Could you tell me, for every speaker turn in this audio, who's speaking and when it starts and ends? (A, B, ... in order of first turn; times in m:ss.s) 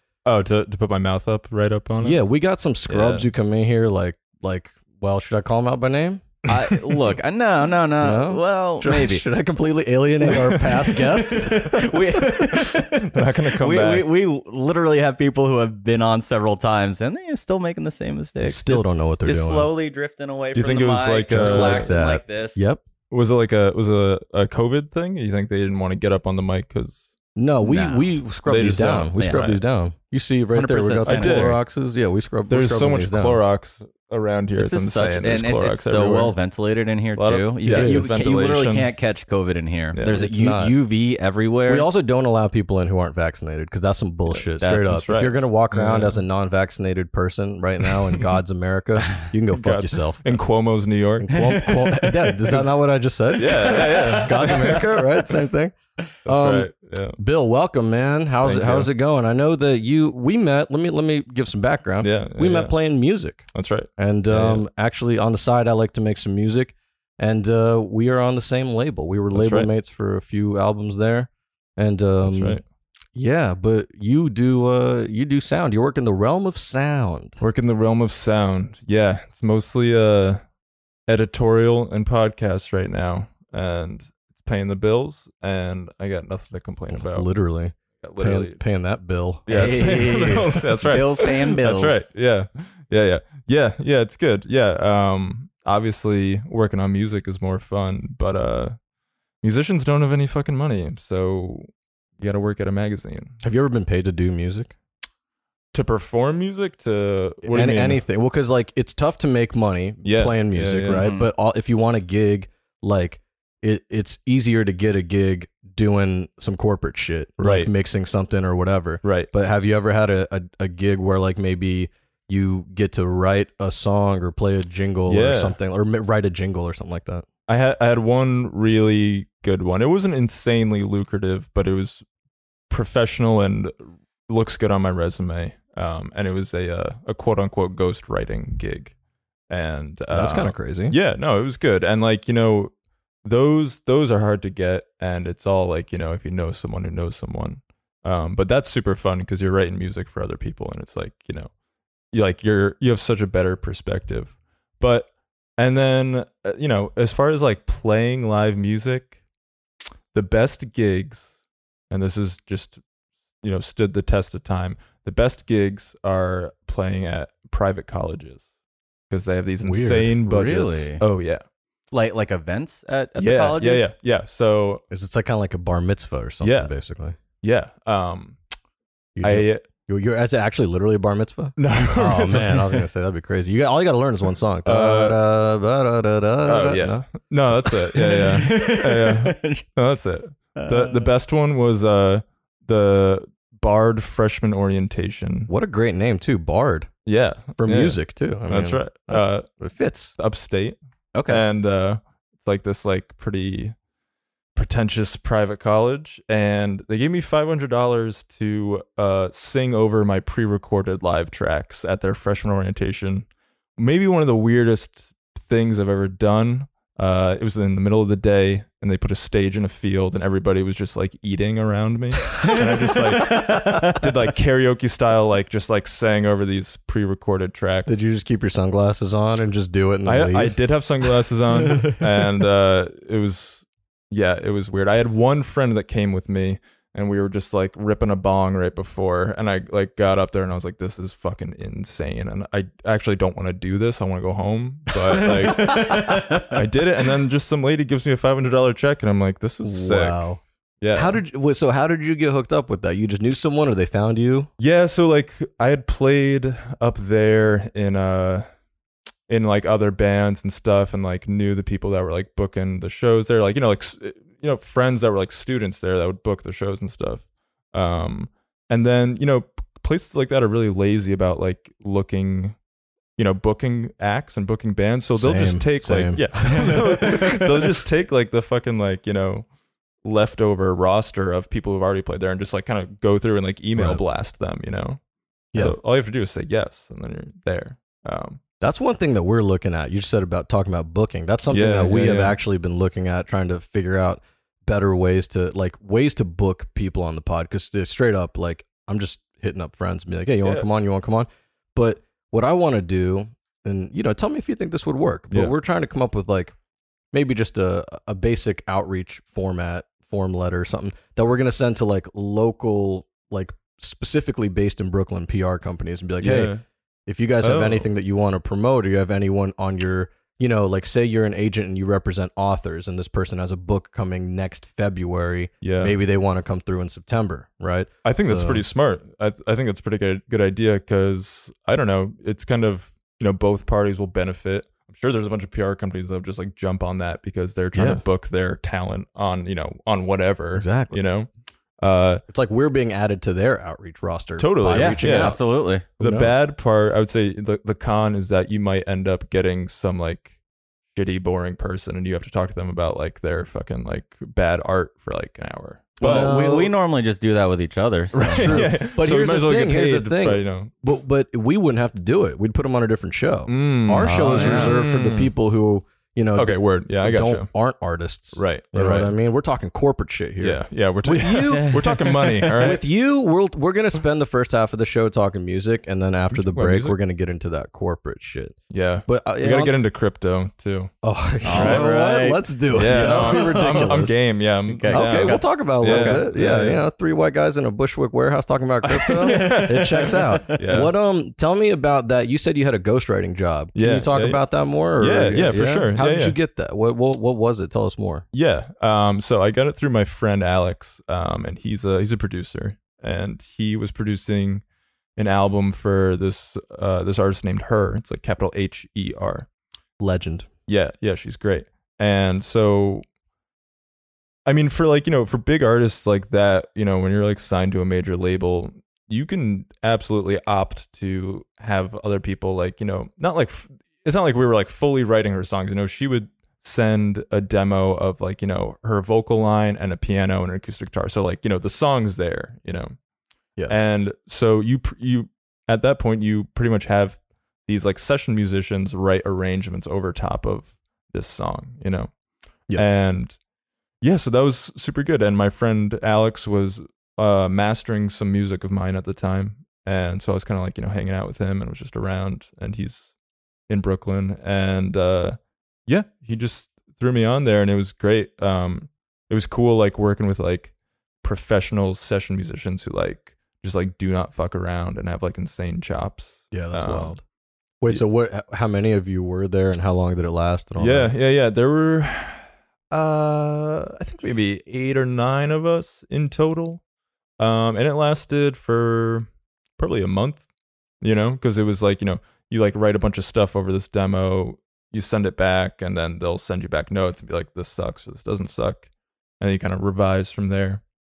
0:00.2-0:02.2 A
0:02.0-0:06.3 B
0:02.9-0:03.3 A
0:06.5-0:09.2 C
0:08.0-0:12.4 B
0:10.3-0:22.7 C
0:12.9-0:14.1 A
0:18.4-0:19.7 B
0:20.6-0:22.0 A
0:21.3-0:22.8 B
0:23.1-0:27.1 A
0:27.4-0:33.4 B
0:27.6-0:28.1 C
0:28.5-0:29.6 A
0:29.2-0:29.5 C
0:30.5-0:31.6 C
0:31.1-0:31.6 A
0:32.5-0:36.4 A
0:34.6-0:41.9 C
0:37.2-0:38.9 A
0:37.7-0:38.2 B
0:39.9-0:40.2 A
0:40.1-0:40.8 B
0:41.7-0:50.4 B
0:44.3-0:46.2 A
0:44.6-0:44.9 C
0:49.5-0:51.4 A
0:51.2-1:03.5 B
0:53.3-0:54.6 A
0:53.9-0:54.9 C
0:56.2-0:57.2 A
0:58.4-0:58.9 A
1:02.0-1:02.7 A
1:03.5-1:04.7 A
1:04.0-1:12.6 B
1:09.3-1:09.7 A
1:12.2-1:12.6 A
1:13.2-1:17.4 B
1:17.4-1:20.4 A
1:21.1-1:27.3 A
1:26.9-1:29.4 B
1:28.0-1:28.6 A
1:29.5-1:38.8 A
1:29.5-1:32.1 C
1:39.4-1:41.7 A
1:42.2-1:43.4 A
1:43.4-1:44.7 B
1:45.7-1:48.0 A
1:47.5-2:07.3 B
1:50.0-1:51.1 A
1:51.0-1:51.3 C
1:57.4-1:57.7 A
1:59.0-1:59.3 A
2:05.1-2:05.6 A
2:07.5-2:12.0 A
2:12.7-2:13.7 A
2:14.3-2:18.9 A
2:19.5-2:22.7 A
2:20.1-2:21.0 B
2:23.2-2:31.5 A
2:32.1-2:39.1 A
2:40.1-2:41.3 A
2:41.9-2:42.8 A
2:43.4-2:48.5 A
2:49.1-2:51.4 A
2:49.6-2:50.3 B
2:50.3-2:51.0 C
2:51.9-2:53.9 C
2:53.2-2:54.8 A
2:54.9-2:57.2 B
2:56.4-2:56.7 A
2:57.4-2:58.4 A
2:59.2-3:07.1 B
2:59.2-2:59.6 A
3:01.6-3:02.8 A
3:04.6-3:05.2 A
3:06.4-3:15.5 A
3:07.6-3:09.6 C
3:10.6-3:11.1 C
3:15.5-3:16.9 B
3:17.1-3:19.5 A
3:17.6-3:20.2 B
3:20.2-3:20.8 A
3:21.1-3:21.4 C
3:21.3-3:23.8 A
3:24.6-3:48.0 A
3:42.4-3:44.0 C
3:47.9-3:50.6 B
3:50.1-4:10.2 A
4:05.1-4:06.6 C
4:09.6-4:10.4 B
4:10.8-4:11.2 A
4:10.9-4:14.5 B
4:14.6-4:18.5 A
4:19.3-4:32.6 A
4:33.2-4:39.5 A
4:35.2-4:37.8 B
4:40.0-4:45.0 A
4:43.8-4:44.0 B
4:45.6-4:48.4 A
4:48.6-5:06.5 B
4:51.5-4:52.4 A
5:07.1-5:16.5 B
5:16.2-5:16.6 A
5:17.1-5:28.6 B
5:17.4-5:17.9 A
5:25.6-5:26.0 A
5:28.0-5:42.2 A
5:37.7-5:38.0 B
5:40.6-5:41.0 B
5:42.3-5:45.4 B
5:44.4-5:50.3 A
5:44.7-5:45.8 C
5:46.0-5:46.3 B
5:50.9-5:56.3 A
5:56.0-5:58.7 C
5:56.0-5:56.7 B
5:58.1-6:19.8 B
5:58.3-6:00.8 A
6:03.5-6:05.3 A
6:04.0-6:04.8 C
6:06.4-6:07.5 A
6:08.4-6:09.1 A
6:10.4-6:12.8 A
6:11.5-6:12.0 C
6:16.3-6:17.0 A
6:18.7-6:20.9 A
6:21.0-6:24.2 B
6:21.4-6:24.0 C
6:21.5-6:21.9 A
6:22.7-6:26.8 A
6:24.7-6:26.3 C
6:24.9-6:38.2 B
6:29.0-6:30.9 A
6:29.2-6:30.6 C
6:33.8-6:34.4 A
6:35.0-6:36.4 A
6:38.3-6:44.6 A
6:45.2-6:49.5 A
6:50.0-6:50.5 B
6:50.7-6:53.0 A
6:54.5-7:13.0 A
7:13.7-7:22.1 A
7:22.7-7:23.4 A
7:24.0-7:33.1 A
7:33.7-7:47.2 A
7:46.5-7:47.2 B
7:47.8-7:51.1 B
7:50.8-7:56.8 A
7:57.4-8:00.4 A
8:01.0-8:08.9 A
8:09.4-8:10.8 A